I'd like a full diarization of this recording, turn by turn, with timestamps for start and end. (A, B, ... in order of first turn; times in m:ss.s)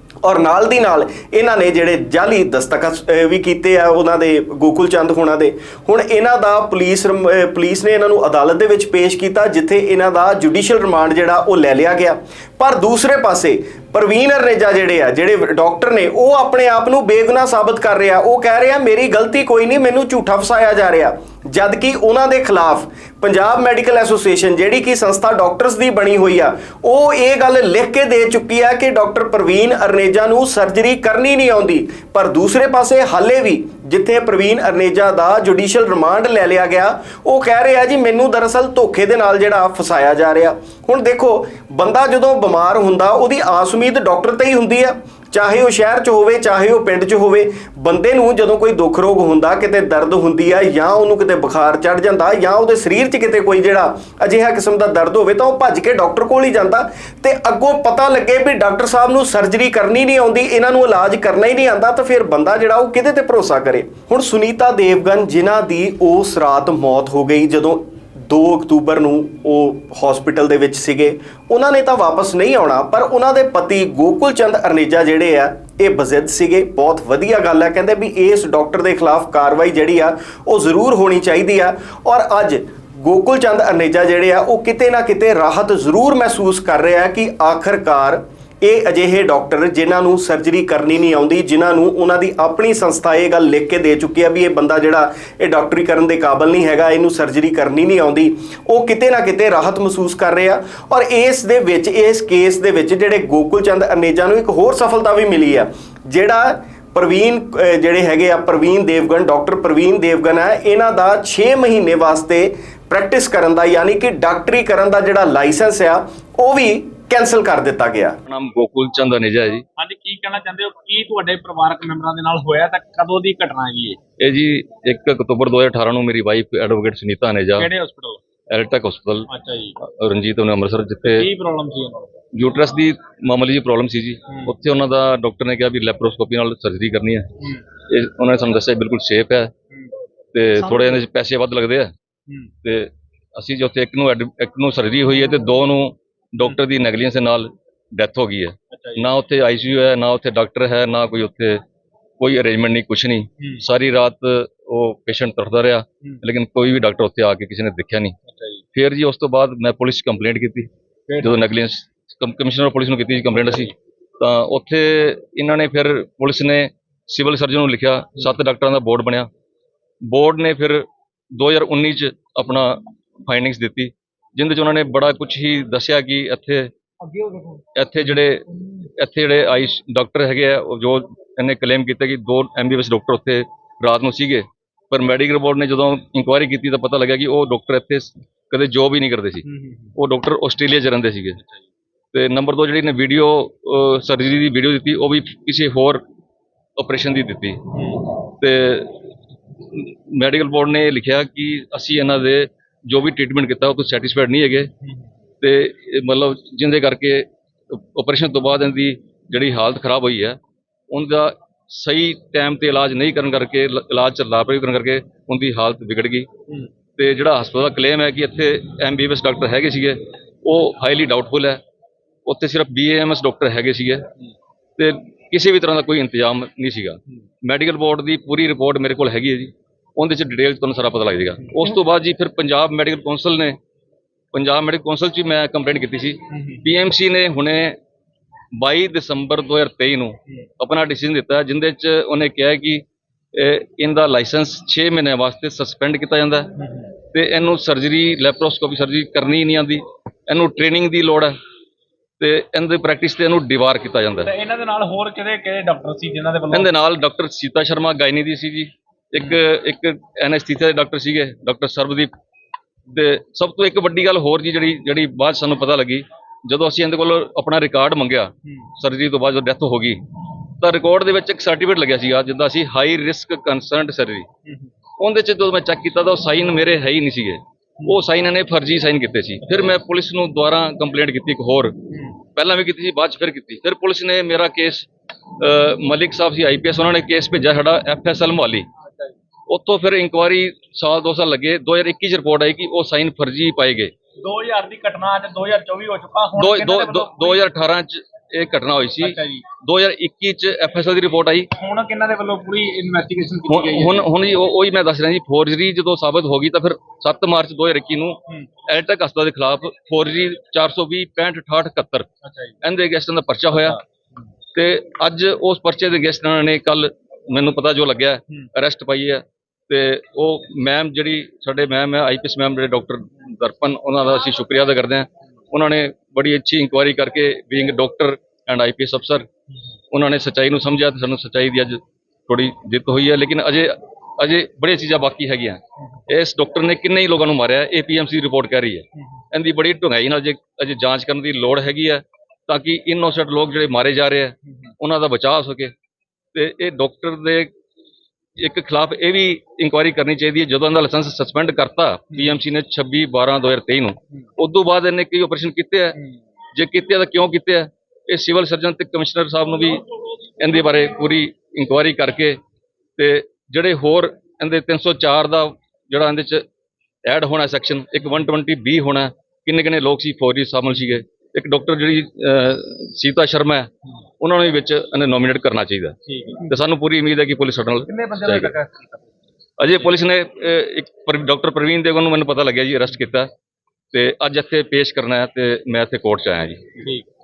0:00.2-1:58.2 A
1:58.3-1:59.6 B
1:59.8-2:04.0 C
2:04.2-2:07.7 B
2:07.6-2:08.2 C
2:08.5-2:09.3 B
2:09.3-2:09.8 C
2:09.8-2:11.3 B
2:11.0-2:12.1 C
2:12.4-2:19.5 B
2:20.3-2:21.9 B
2:22.6-2:31.6 B
2:28.7-2:29.1 C
2:32.2-2:38.2 B
2:38.3-2:38.6 C
2:38.8-2:40.7 B
2:41.1-2:41.4 C
2:41.2-2:49.3 B
2:50.1-2:56.7 B
2:57.8-3:09.4 B
3:09.4-3:09.9 C
3:10.0-3:11.4 B
3:12.1-3:16.0 B
3:16.8-3:17.6 B
3:17.7-3:18.1 C
3:18.2-3:19.0 B
3:19.7-3:24.7 B
3:25.4-3:30.4 B
3:30.9-3:36.3 B
3:37.0-3:41.6 B
3:42.2-3:44.0 B
3:44.8-3:53.6 B
3:54.3-3:57.8 B
3:56.3-3:56.6 C
3:58.6-4:06.5 B
4:06.6-4:06.9 C
4:07.1-4:11.4 B
4:12.2-4:14.3 B
4:14.2-4:16.7 C
4:16.5-4:22.1 B
4:22.9-4:30.0 B
4:30.6-4:34.3 B
4:34.4-4:34.7 C
4:35.0-4:41.8 B
4:42.3-4:48.7 B
4:49.5-4:53.9 B
4:54.2-4:57.4 C
4:56.4-5:01.5 B
4:59.0-4:59.5 C
5:01.6-5:04.1 C
5:03.5-5:12.1 B
5:12.2-5:12.6 C
5:12.6-5:13.8 B
5:14.6-5:29.3 B
5:29.9-5:45.7 B
5:46.3-5:47.5 B
5:48.4-5:56.0 B
5:52.1-5:52.4 C
5:56.6-5:59.8 B
6:00.4-6:02.4 B
6:03.0-6:06.4 B
6:07.0-6:13.7 B
6:14.2-6:16.0 B
6:16.1-6:16.5 C
6:16.5-6:18.5 B
6:17.9-6:19.0 C
6:19.6-6:23.3 B
6:23.9-6:26.6 B
6:26.8-6:27.1 C